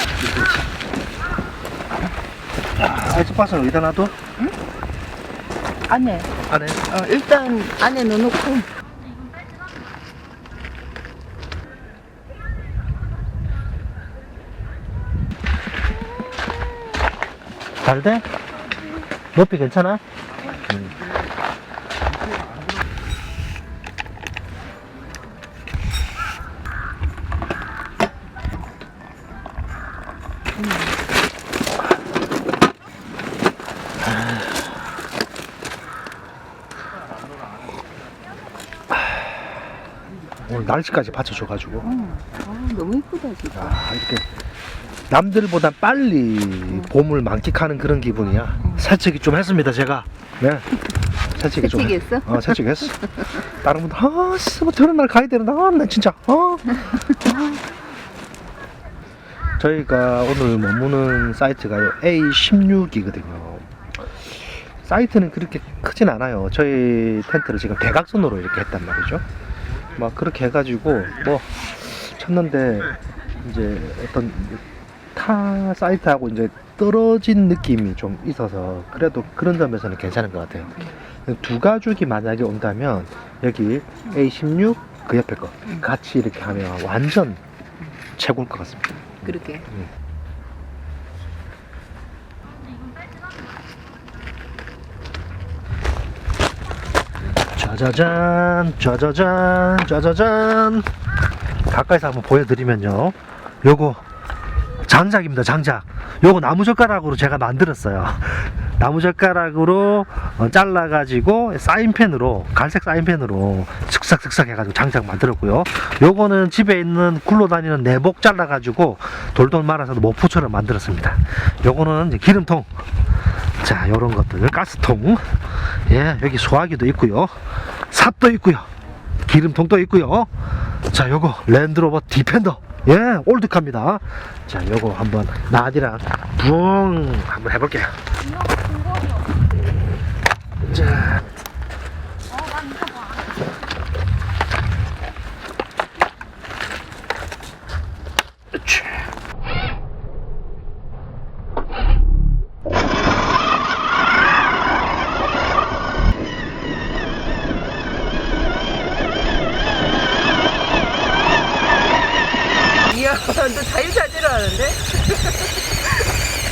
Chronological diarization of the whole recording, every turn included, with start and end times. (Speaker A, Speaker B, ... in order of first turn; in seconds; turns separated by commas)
Speaker A: 2.8-4.1, Speaker B: 5.9-6.3, Speaker A: 6.5-6.8, Speaker B: 6.8-8.7, Speaker A: 17.8-18.3, Speaker A: 19.4-20.0, Speaker A: 20.7-20.9, Speaker B: 30.6-30.9, Speaker A: 34.0-34.5, Speaker A: 38.9-39.2, Speaker A: 40.5-41.9, Speaker B: 41.8-43.8, Speaker A: 43.5-44.3, Speaker A: 45.1-50.7, Speaker A: 51.4-57.6, Speaker B: 51.5-53.3, Speaker A: 59.6-69.2, Speaker A: 70.0-74.6, Speaker A: 75.2-87.4, Speaker A: 88.2-89.9, Speaker B: 89.2-89.7, Speaker A: 97.5-100.9, Speaker A: 101.7-104.0, Speaker A: 104.8-122.7, Speaker A: 123.6-128.7, Speaker A: 129.3-130.3, Speaker A: 130.9-138.0, Speaker A: 140.7-141.2, Speaker B: 162.8-165.4